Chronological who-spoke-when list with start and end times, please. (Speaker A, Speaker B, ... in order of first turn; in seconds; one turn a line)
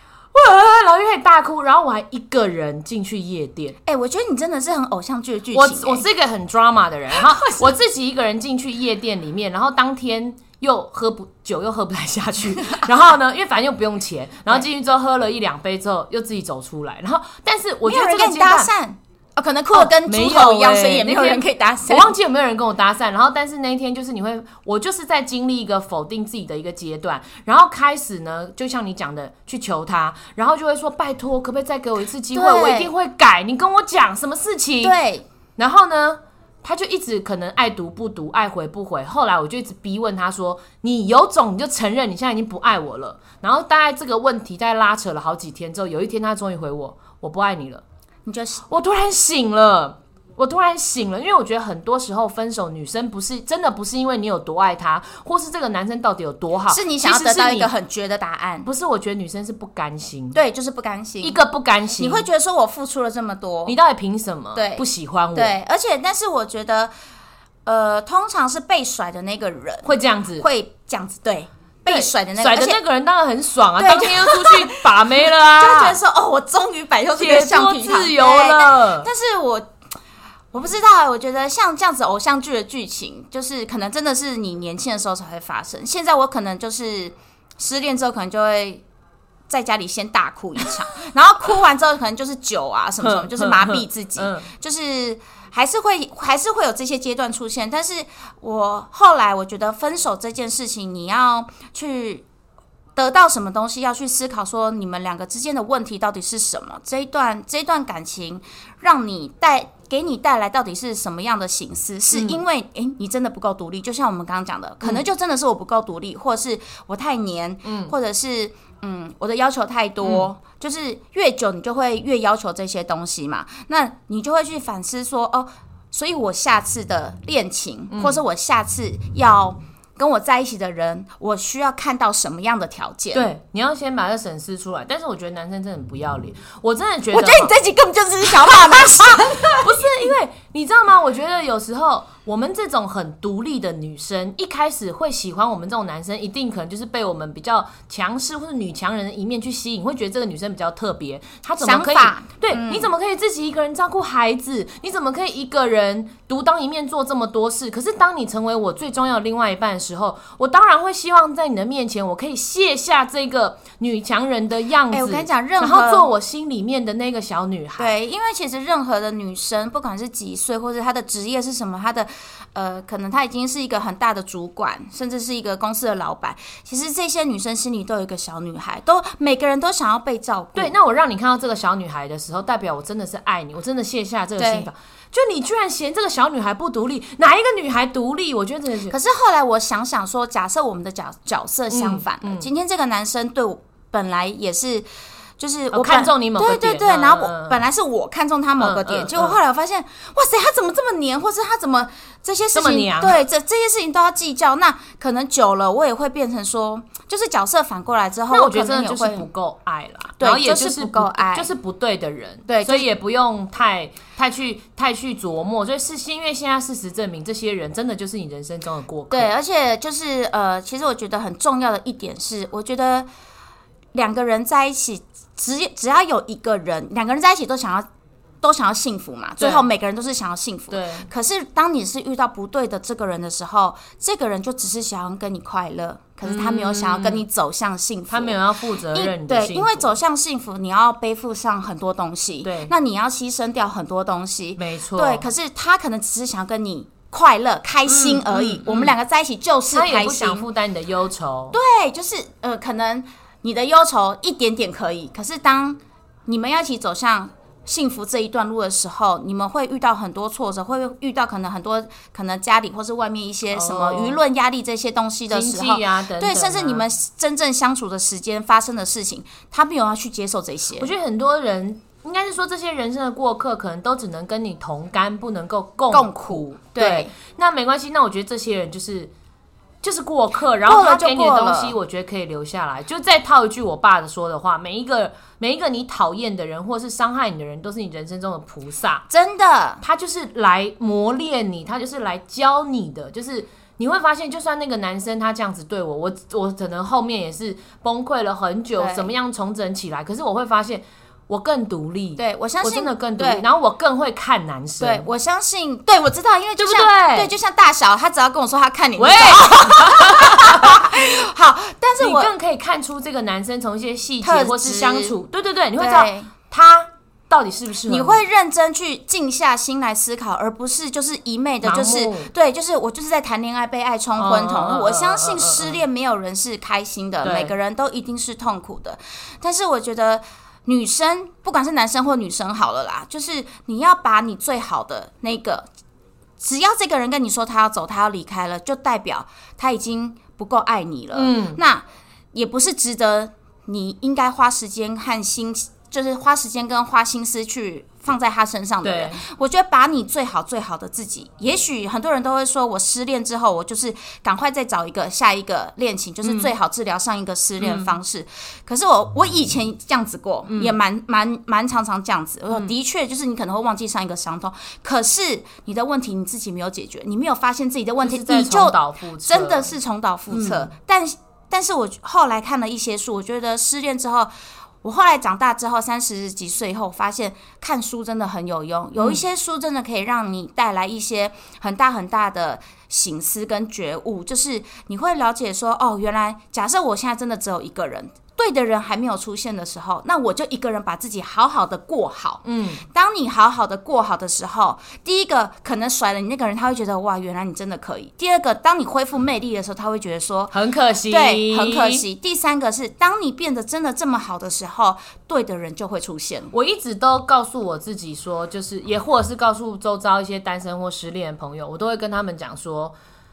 Speaker A: 0.3-3.8
Speaker B: 3.9-6.0
Speaker A: 5.5-18.7
Speaker B: 7.1-7.7
Speaker B: 17.9-22.1
Speaker A: 19.7-35.0
Speaker B: 32.3-32.9
Speaker B: 34.8-35.2
Speaker A: 35.6-47.8
Speaker B: 48.3-48.6
Speaker A: 48.7-57.7
Speaker B: 56.7-58.7
Speaker A: 58.6-60.4
Speaker B: 60.3-61.4
Speaker A: 61.2-62.3
Speaker B: 62.0-63.8
Speaker A: 63.7-65.5
Speaker B: 64.5-66.9
Speaker B: 67.7-72.8
Speaker A: 69.8-70.5
Speaker A: 71.9-76.0
Speaker B: 73.8-74.9
Speaker B: 75.6-79.7
Speaker A: 77.2-79.1
Speaker B: 80.5-88.8
Speaker B: 89.5-102.3
Speaker A: 93.0-94.5
Speaker B: 103.0-133.3
Speaker A: 112.1-112.4
Speaker A: 117.7-117.9
Speaker A: 127.9-128.2
Speaker A: 133.1-137.5
Speaker B: 137.1-139.7
Speaker A: 138.5-167.9
Speaker B: 151.6-152.9
Speaker B: 164.9-166.1
Speaker B: 167.8-180.7
Speaker A: 180.6-188.9
Speaker B: 184.4-184.7
Speaker B: 188.9-194.9
Speaker A: 191.7-192.5
Speaker B: 195.4-209.3
Speaker A: 195.7-197.6
Speaker A: 198.6-199.4
Speaker A: 202.5-203.2
Speaker A: 208.3-219.3
Speaker B: 210.2-211.5
Speaker B: 212.5-212.9
Speaker B: 219.1-223.1
Speaker B: 223.9-227.9
Speaker B: 228.4-238.4
Speaker A: 229.4-229.7
Speaker A: 230.7-231.1
Speaker A: 236.2-237.2
Speaker A: 238.1-239.9
Speaker B: 238.9-250.4
Speaker A: 242.4-242.7
Speaker A: 244.6-245.3
Speaker A: 247.9-248.9
Speaker A: 249.7-251.6
Speaker B: 251.5-270.9
Speaker A: 263.5-264.2
Speaker A: 265.3-266.8
Speaker A: 270.8-279.1
Speaker B: 275.9-277.1
Speaker A: 279.8-289.1
Speaker B: 280.6-281.8
Speaker B: 289.1-289.8
Speaker A: 289.8-305.1
Speaker B: 298.8-299.1
Speaker B: 302.2-303.4
Speaker B: 304.8-312.3
Speaker A: 306.6-307.3
Speaker A: 309.0-310.9
Speaker A: 312.0-318.2
Speaker B: 314.2-315.1
Speaker B: 315.8-316.3
Speaker B: 317.9-335.7
Speaker A: 321.6-322.3
Speaker A: 324.2-325.8
Speaker A: 327.2-327.5
Speaker B: 336.4-374.3
Speaker A: 341.1-341.6
Speaker A: 348.8-349.2
Speaker A: 356.2-356.5
Speaker A: 357.6-358.0
Speaker A: 360.5-360.8
Speaker A: 368.0-369.7
Speaker A: 370.3-370.7
Speaker B: 374.8-400.5
Speaker A: 392.4-392.8
Speaker A: 400.5-402.0
Speaker B: 401.1-406.5
Speaker A: 406.5-412.9